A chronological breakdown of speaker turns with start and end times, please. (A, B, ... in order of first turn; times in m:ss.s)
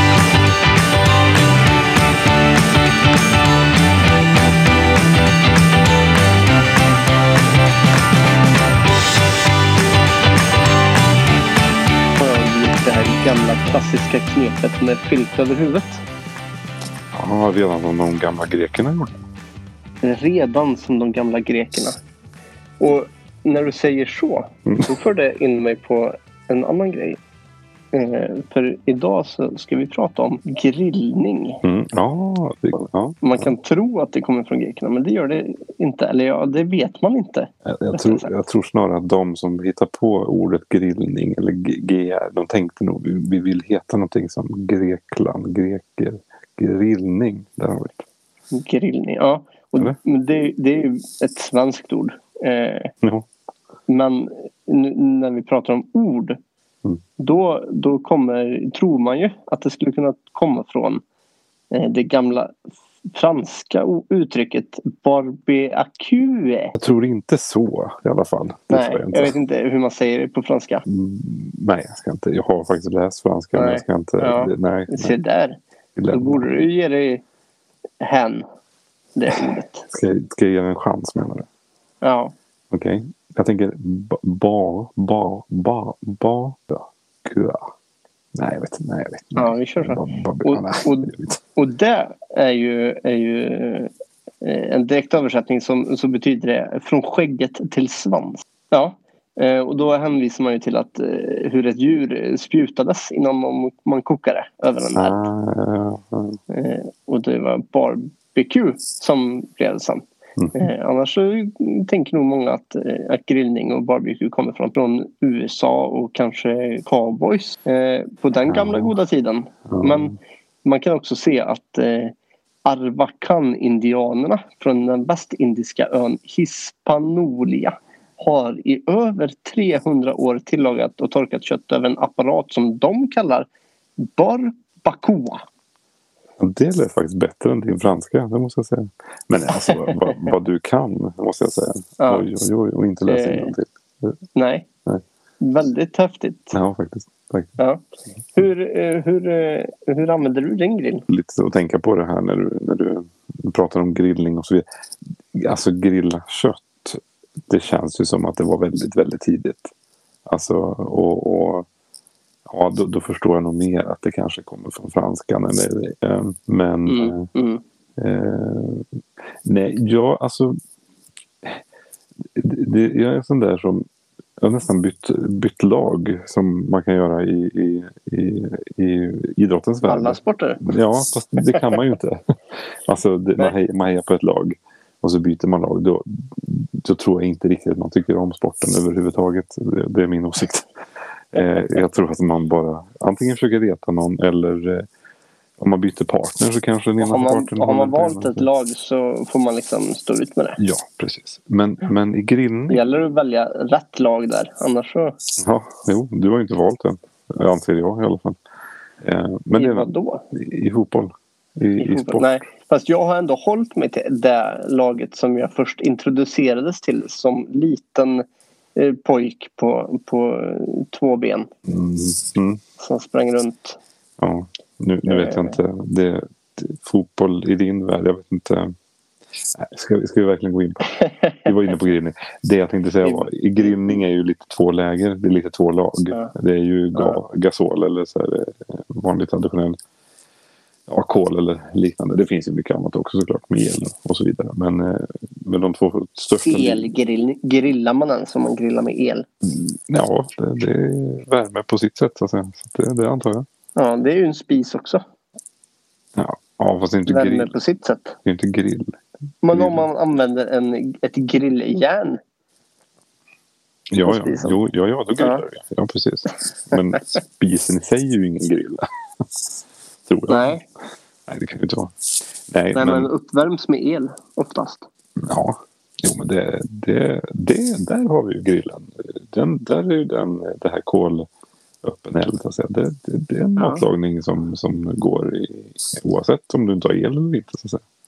0:12.2-0:16.0 A
0:17.1-0:19.2 B
0:20.0-0:22.0 A
0:22.8-0:27.2 A
0:27.9-0:31.6 A
0:31.6-0:33.5 B
0:33.2-0:38.3 A
0:37.6-0:48.0 B
0:48.5-0:52.9 A
0:53.9-0:56.4 A
0:57.2-1:01.0 A
1:01.7-1:02.6 A
1:03.1-1:06.7 A
1:06.8-1:09.3 B
1:08.7-1:10.8 A
1:10.8-1:15.2 B
1:13.5-1:15.6 A
1:16.0-1:16.6 B
1:16.1-1:17.2 A
1:18.0-1:18.4 A
1:19.2-1:19.8 A
1:19.9-1:21.5 B
1:22.0-1:22.3 A
1:22.7-1:27.7 B
1:28.3-1:31.4 B
1:29.3-1:33.9 A
1:34.4-1:45.3 A
1:45.0-1:46.4 B
1:46.5-2:02.1 A
1:58.5-1:58.9 B
1:59.7-2:00.2 B
2:02.6-2:15.4 A
2:16.4-2:24.2 B
2:19.7-2:20.1 A
2:22.0-2:22.3 A
2:23.1-2:23.5 A
2:24.3-2:24.7 A
2:25.4-2:26.6 A
2:26.5-2:27.6 B
2:28.3-2:31.1 A
2:31.1-2:34.6 B
2:35.3-2:39.7 B
2:40.3-2:41.7 B
2:42.5-2:47.3 B
2:46.9-2:47.6 A
2:48.0-2:48.9 B
2:49.4-2:50.6 B
2:52.3-2:53.9 B
2:54.4-3:10.7 B
2:59.8-3:00.6 A
3:11.3-3:14.9 B
3:15.6-3:18.5 B
3:17.0-3:20.6 A
3:20.6-3:22.8 B
3:22.7-3:25.2 A
3:25.4-3:28.4 B
3:29.0-3:32.4 B
3:29.6-3:30.2 A
3:31.8-3:38.2 A
3:38.8-3:41.5 A
3:41.7-3:42.6 B
3:42.8-3:43.8 A
3:44.2-3:48.7 B
3:45.1-3:45.6 A
3:49.4-3:59.8 B
3:51.0-3:51.4 A
3:53.0-3:53.6 A
4:00.9-4:06.9 B
4:06.4-4:09.3 A
4:09.4-4:13.5 B
4:13.8-4:15.0 A
4:16.1-4:17.5 B
4:17.1-4:18.2 A
4:18.2-4:19.0 B
4:19.4-4:22.2 A
4:19.5-4:19.9 B
4:23.9-4:29.3 B
4:24.0-4:24.6 A
4:30.1-4:30.6 B
4:30.3-4:30.6 A
4:31.3-4:33.1 B
4:32.7-4:34.8 A
4:35.2-4:41.3 B
4:41.8-4:47.8 B
4:43.6-4:43.8 A